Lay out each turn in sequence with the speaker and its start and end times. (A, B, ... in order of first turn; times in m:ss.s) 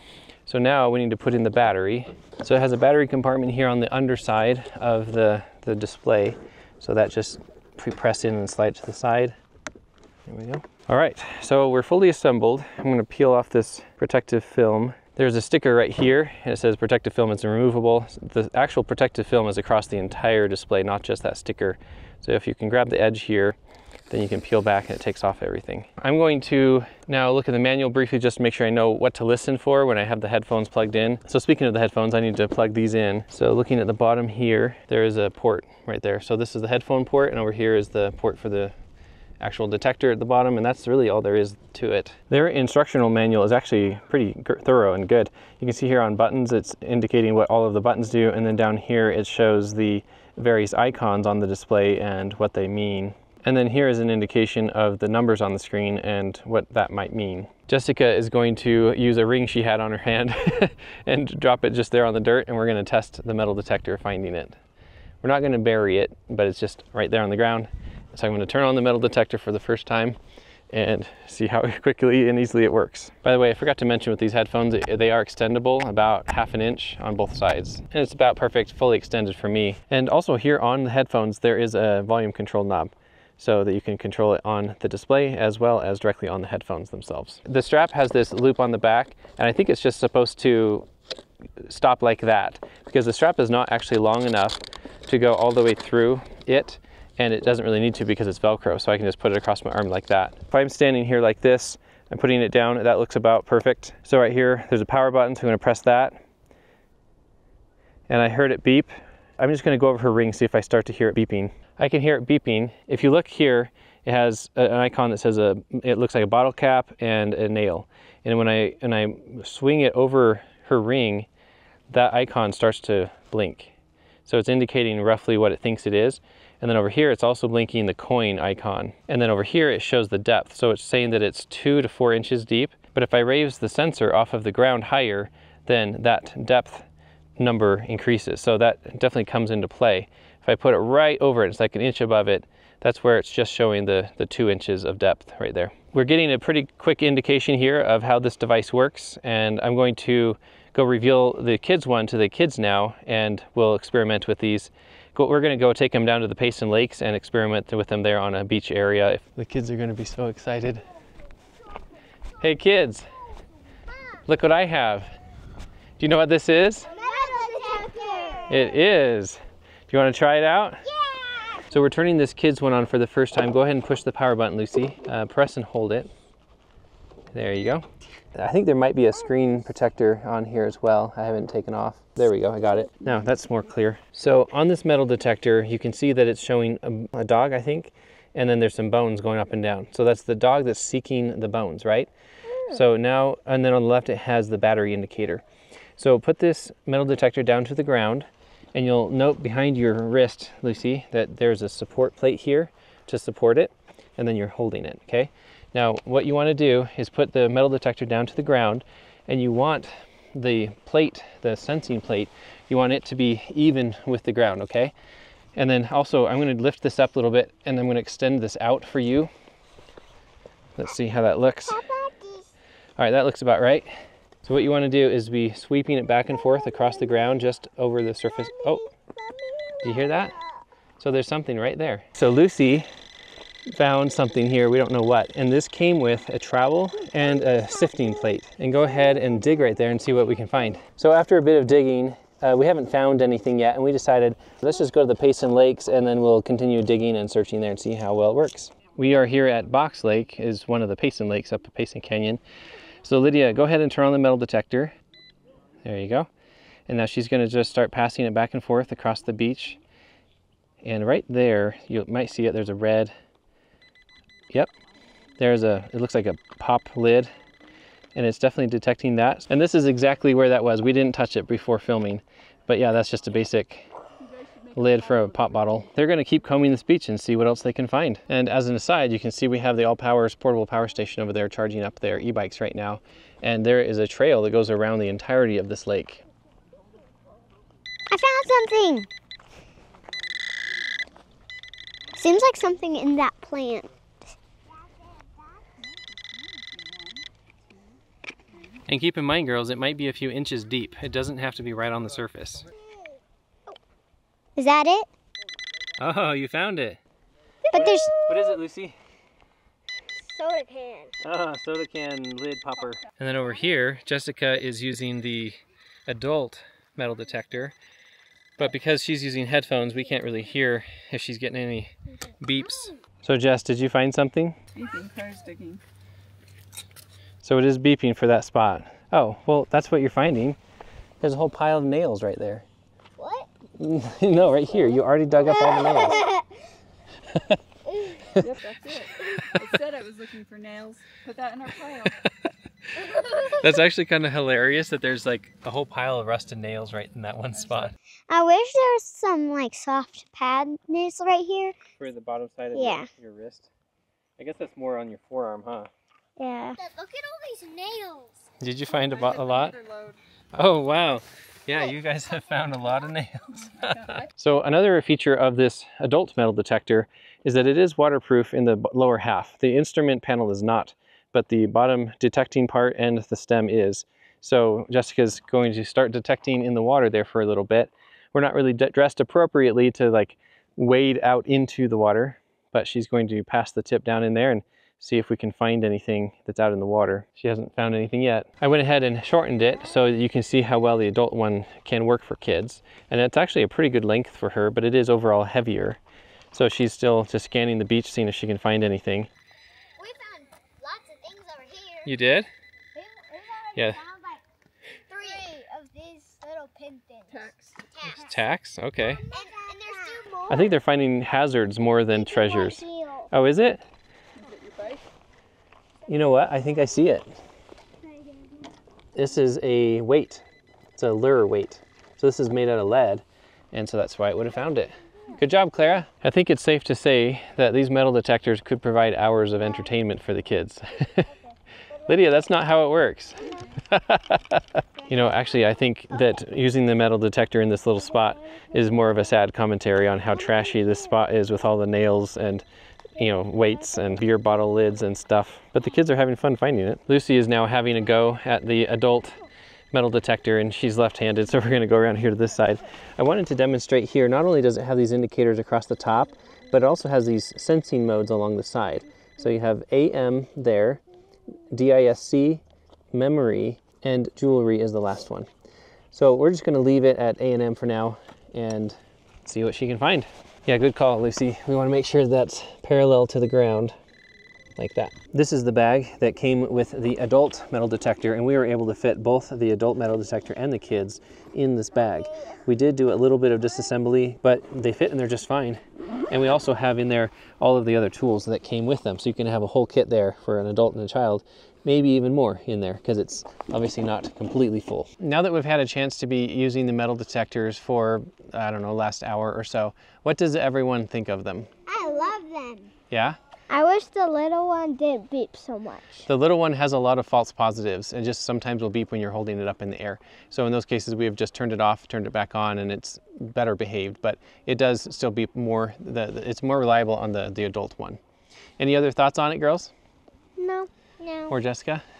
0:00.4-0:09.4 A
0:10.3-0:23.6 A
0:24.1-0:38.7 A
0:39.4-1:04.6 A
1:05.2-1:10.2 A
1:10.7-1:30.9 A
1:31.6-1:46.2 A
1:48.1-2:01.3 A
2:01.9-2:03.7 A
2:04.2-2:16.9 A
2:17.4-2:40.8 A
2:42.4-2:43.1 A
2:44.2-2:45.2 A
2:46.0-2:46.9 A
2:46.9-2:48.5 B
2:48.5-2:50.9 A
2:51.1-2:51.4 B
2:51.5-2:56.1 A
2:57.3-3:12.1 A
3:12.6-3:15.4 A
3:16.0-3:34.9 A
3:35.5-3:39.3 A
3:40.8-3:41.9 A
3:41.8-3:42.5 B
3:43.0-3:43.9 A
3:44.4-3:48.9 A
3:49.0-3:49.8 B
3:49.8-3:50.4 A
3:51.0-3:52.9 A
3:53.7-4:12.4 A
4:13.0-4:14.9 A
4:15.8-4:16.3 A
4:16.9-4:19.8 A
4:20.8-4:23.1 A
4:25.4-4:27.3 A
4:28.1-4:33.9 A
4:34.3-4:35.5 C
4:34.7-4:46.2 A
4:48.1-4:49.1 B
4:52.1-4:53.9 B
4:56.2-4:57.2 C
4:58.9-5:02.7 A
5:04.6-5:05.1 B
5:06.0-5:07.0 A
5:07.6-5:08.1 B
5:07.7-5:09.0 A
5:10.2-5:11.1 B
5:11.2-5:17.8 A
5:18.6-5:24.6 A
5:24.8-5:25.8 C
5:27.4-5:30.6 A
5:31.2-5:32.6 A
5:33.2-5:33.5 B
5:33.8-5:36.3 A
5:35.8-5:36.5 B
5:37.3-5:37.6 A
5:38.1-5:38.5 A
5:38.4-5:42.2 C
5:42.0-5:48.0 A
5:48.3-5:51.8 B
5:52.0-5:53.7 A
5:52.8-5:53.1 B
5:54.4-5:55.9 A
5:56.4-5:58.1 B
5:58.6-5:59.8 A
5:59.0-6:00.2 C
6:00.5-6:36.0 A
6:36.5-6:39.3 A
6:40.0-6:42.1 B
6:42.0-6:42.5 A
6:43.0-6:44.4 B
6:43.7-6:44.0 A
6:45.1-6:47.3 B
6:47.3-6:47.9 C
6:47.9-6:48.2 B
6:48.0-6:49.2 A
6:49.3-6:50.7 B
6:50.5-6:53.8 A
6:52.1-6:53.3 B
6:54.4-6:55.0 C
6:56.1-6:57.3 A
6:59.1-7:11.3 A
7:12.0-7:22.6 A
7:23.2-7:29.4 A
7:29.9-7:41.0 A
7:41.7-7:42.6 A
7:43.1-7:45.5 A
7:46.1-7:54.0 A
7:54.8-8:21.7 A
8:21.9-8:22.9 B
8:23.1-8:23.4 A
8:23.7-8:26.3 B
8:26.2-8:38.2 A
8:38.8-8:39.9 A
8:40.6-8:41.5 B
8:41.5-8:42.0 A